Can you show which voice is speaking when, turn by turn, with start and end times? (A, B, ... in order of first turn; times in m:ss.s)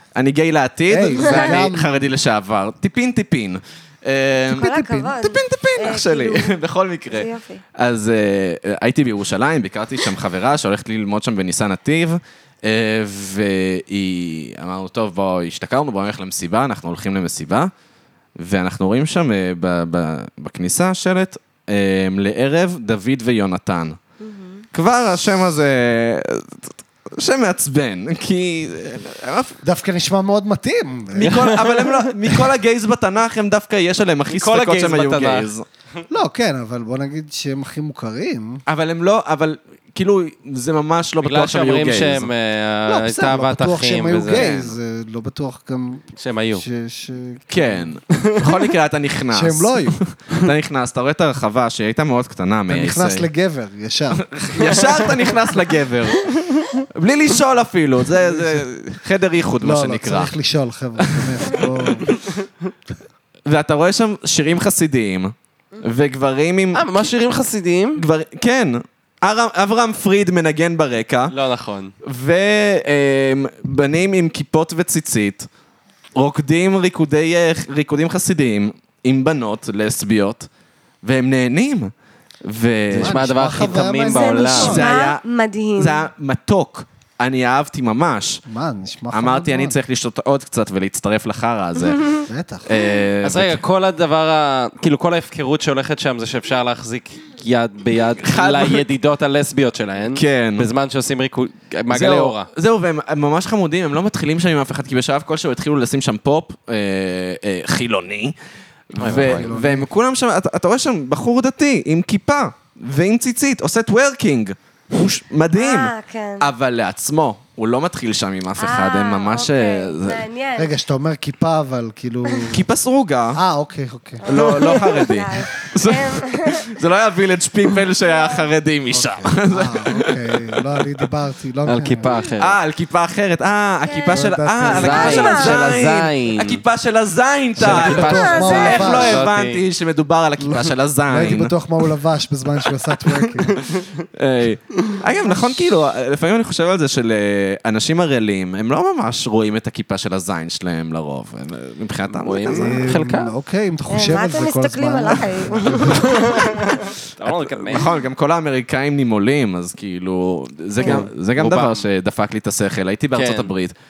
0:00.2-0:17.7 A
0:00.9-0:02.0 B
0:04.5-0:06.5 C
0:04.6-0:05.2 B
0:07.1-0:07.6 C
0:18.4-0:24.0 A
0:24.2-0:24.6 C
0:24.7-0:29.6 A
0:29.6-0:31.5 B
0:31.2-0:35.6 A
0:31.2-0:32.4 D
0:34.3-0:35.5 D
0:36.1-0:38.6 B
0:38.7-0:42.3 A
0:41.2-0:44.6 D
0:42.9-0:47.9 B
0:44.3-0:44.7 A
0:46.2-0:46.6 D
0:47.5-0:53.3 A
0:48.2-0:48.6 D
0:49.3-0:50.0 B
0:52.7-0:55.1 B
0:54.1-1:00.3 A
0:54.7-0:55.1 D
0:58.2-0:58.6 B
0:59.6-1:02.1 B
1:01.0-1:02.2 A
1:03.5-1:07.1 A
1:06.7-1:08.0 D
1:08.0-1:11.4 A
1:11.3-1:11.9 D
1:12.0-1:15.5 A
1:16.2-1:20.5 A
1:21.0-1:21.9 A
1:22.4-1:23.2 A
1:22.9-1:24.8 D
1:23.0-1:24.9 B
1:24.1-1:26.0 C
1:24.6-1:25.2 A
1:25.8-1:28.4 A
1:28.5-1:29.8 B
1:29.1-1:33.6 A
1:32.3-1:32.7 B
1:33.2-1:42.5 D
1:38.2-1:38.9 A
1:40.1-1:40.7 A
1:41.9-1:48.4 A
1:48.9-2:00.2 A
1:49.0-1:49.5 D
1:49.0-1:49.9 B
1:55.6-1:56.5 C
1:58.6-2:00.8 C
2:00.6-2:02.6 B
2:02.5-2:03.4 A
2:03.4-2:04.8 B
2:04.2-2:06.8 C
2:04.2-2:11.0 A
2:08.0-2:08.5 C
2:08.9-2:12.1 B
2:11.7-2:12.6 D
2:12.4-2:21.5 A
2:13.8-2:15.7 C
2:14.1-2:15.2 B
2:14.6-2:16.6 D
2:17.6-2:19.3 B
2:17.6-2:19.6 D
2:18.0-2:18.9 C
2:20.4-2:23.6 B
2:24.1-2:32.9 A
2:25.2-2:25.7 B
2:32.1-2:33.3 D
2:32.5-2:36.4 B
2:33.9-2:36.6 C
2:36.0-2:37.9 D
2:37.2-2:43.7 A
2:40.8-2:41.1 C
2:40.8-2:41.8 D
2:43.2-2:43.5 D